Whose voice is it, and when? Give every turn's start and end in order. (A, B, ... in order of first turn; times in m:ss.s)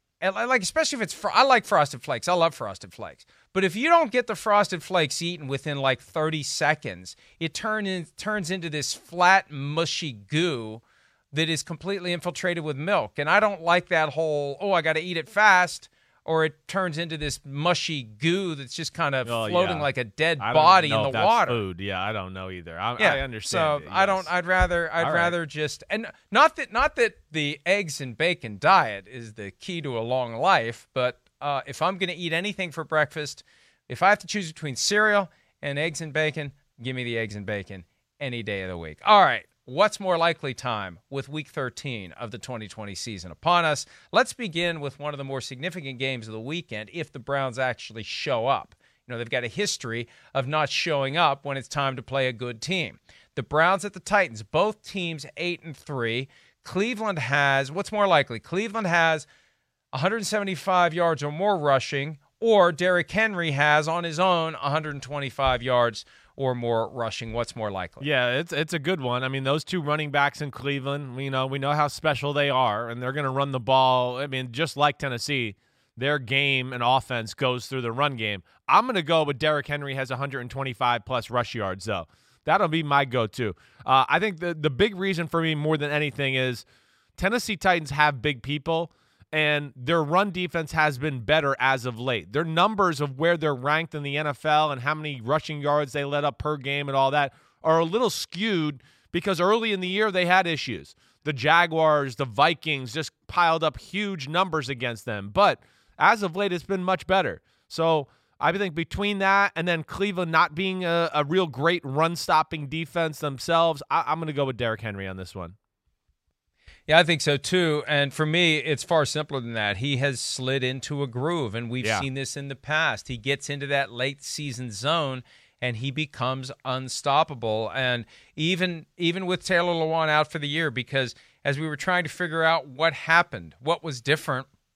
0:00.2-0:21.6 A
0:19.2-0:24.3 B
0:23.0-0:59.3 A
0:25.0-0:25.3 B
0:59.9-1:08.1 A
1:08.0-1:26.6 B
1:27.2-1:55.6 B
1:56.9-2:14.5 A